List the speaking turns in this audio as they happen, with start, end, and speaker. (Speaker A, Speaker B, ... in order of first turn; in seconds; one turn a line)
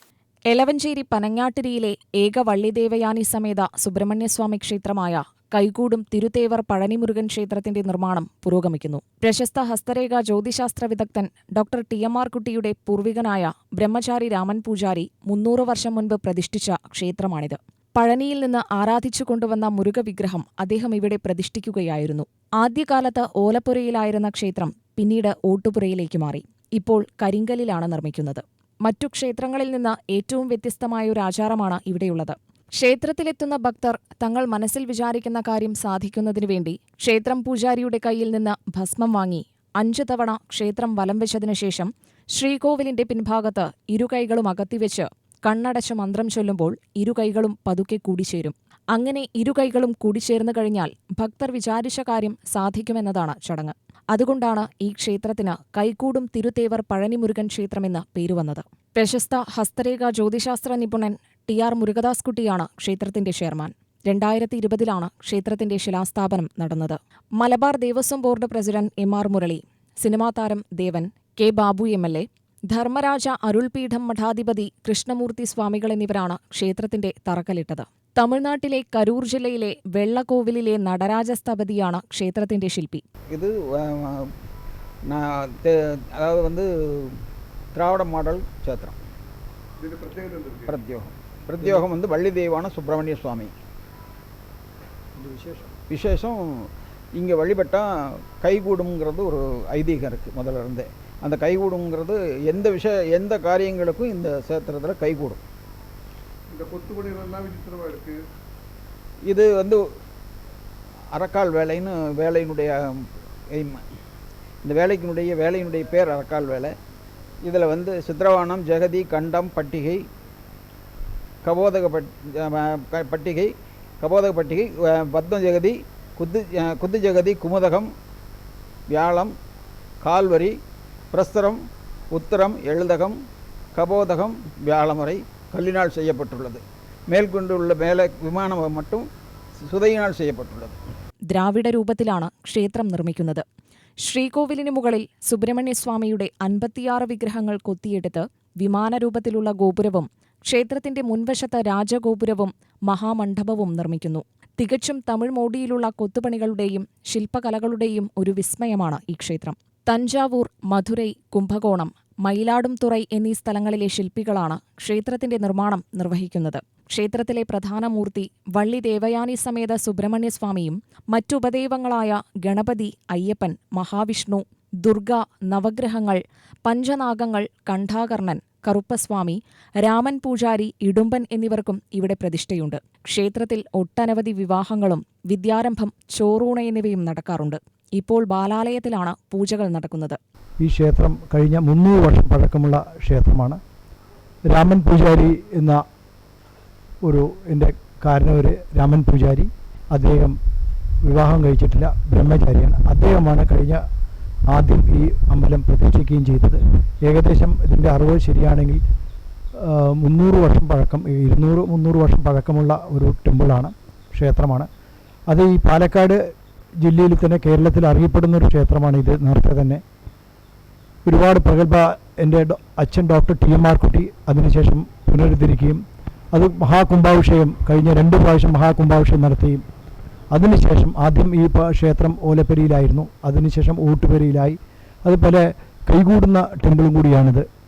Speaker A: 0.5-83.0
Speaker B: 83.3-84.3
Speaker B: 85.1-87.2
Speaker B: 87.7-89.0
Speaker C: 89.8-90.7
Speaker B: 90.7-93.5
Speaker C: 95.2-95.7
Speaker B: 95.9-96.4
Speaker B: 97.1-105.4
Speaker C: 106.5-108.2
Speaker B: 109.2-109.8
Speaker B: 111.1-113.8
Speaker B: 114.6-116.7
Speaker B: 117.4-120.0
Speaker B: 121.4-127.9
Speaker B: 128.9-129.3
Speaker B: 130.0-130.5
Speaker B: 131.1-131.6
Speaker B: 132.1-133.2
Speaker B: 133.7-139.0
Speaker B: 139.6-140.8
Speaker A: 141.3-143.4
Speaker A: 144.0-190.2
Speaker D: 190.6-193.6
Speaker D: 194.5-195.8
Speaker D: 197.0-200.3
Speaker D: 201.0-203.8
Speaker D: 204.5-208.8
Speaker D: 209.6-214.7
Speaker D: 215.3-216.2
Speaker D: 216.8-219.8
Speaker D: 221.0-225.8
Speaker D: 226.3-229.6
Speaker D: 230.3-237.4